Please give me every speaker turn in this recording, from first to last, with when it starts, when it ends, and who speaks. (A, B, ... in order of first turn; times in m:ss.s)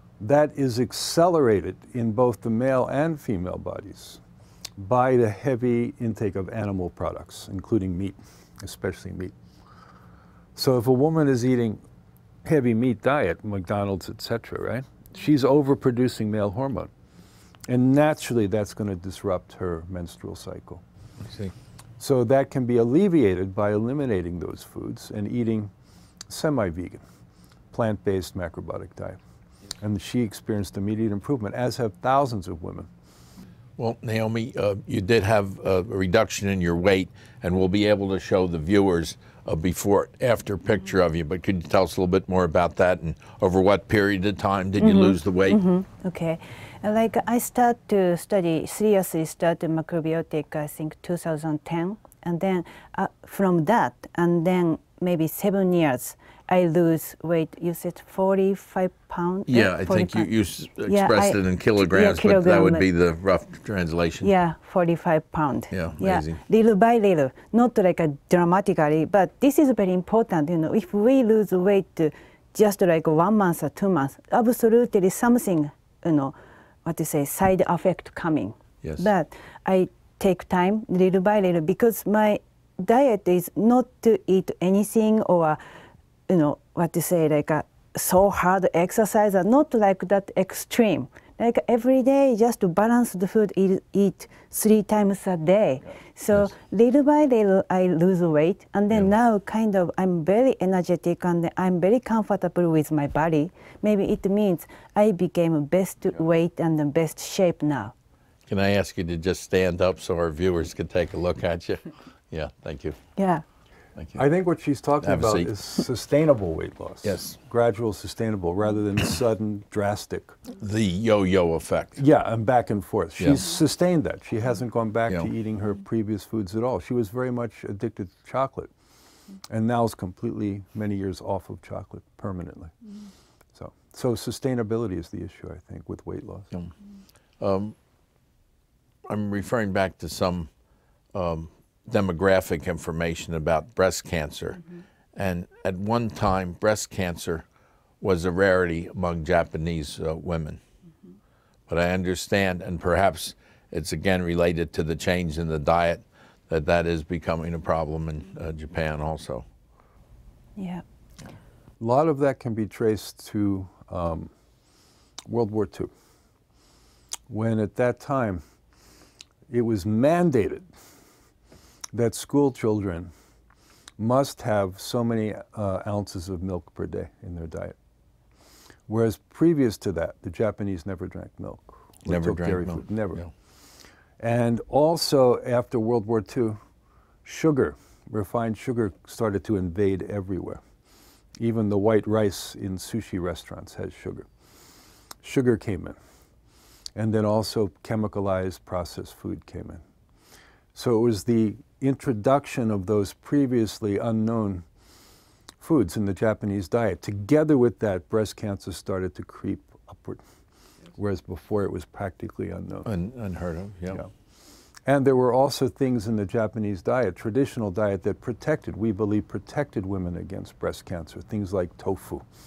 0:00.2-0:04.2 A
0:04.8-0:09.4 A
0:10.6-0:11.8 A
0:12.4-0:16.9 A
0:17.7-0:20.8 A
0:21.2-0:21.5 B
0:22.0-0:25.7 A
0:26.3-0:27.0 A
0:27.7-0:29.2 A
0:29.8-0:32.9 A
0:33.8-0:45.6 B
0:44.8-1:00.3 C
0:59.5-1:04.3 B
1:00.9-1:02.8 C
1:04.2-1:16.4 C
1:05.7-1:06.4 B
1:16.9-1:25.6 C
1:26.3-1:47.9 C
1:48.5-1:53.0 B
1:53.2-1:53.4 C
1:54.0-1:54.2 B
1:54.2-2:00.4 A
1:55.0-1:55.8 B
1:57.0-1:57.4 B
2:00.6-2:02.0 B
2:02.0-2:08.7 A
2:03.2-2:03.4 B
2:09.5-2:12.8 A
2:13.6-2:16.5 A
2:17.4-2:17.8 B
2:19.1-2:20.5 B
2:21.1-2:24.6 B
2:25.2-2:27.4 B
2:28.0-2:30.6 B
2:31.7-2:39.4 B
2:40.6-2:40.8 C
2:41.8-2:44.3 A
2:45.3-2:45.9 A
2:47.3-2:48.4 A
2:49.5-2:50.7 A
2:51.9-2:53.1 A
2:54.0-2:57.8 A
2:58.9-3:03.2 A
3:02.1-3:03.3 B
3:04.2-3:06.6 A
3:07.2-3:10.6 A
3:11.4-3:14.3 A
3:15.2-3:16.0 A
3:17.0-3:19.8 A
3:20.7-3:24.6 A
3:25.6-3:30.2 A
3:31.0-3:32.9 A
3:32.9-3:34.0 B
3:34.9-3:42.3 A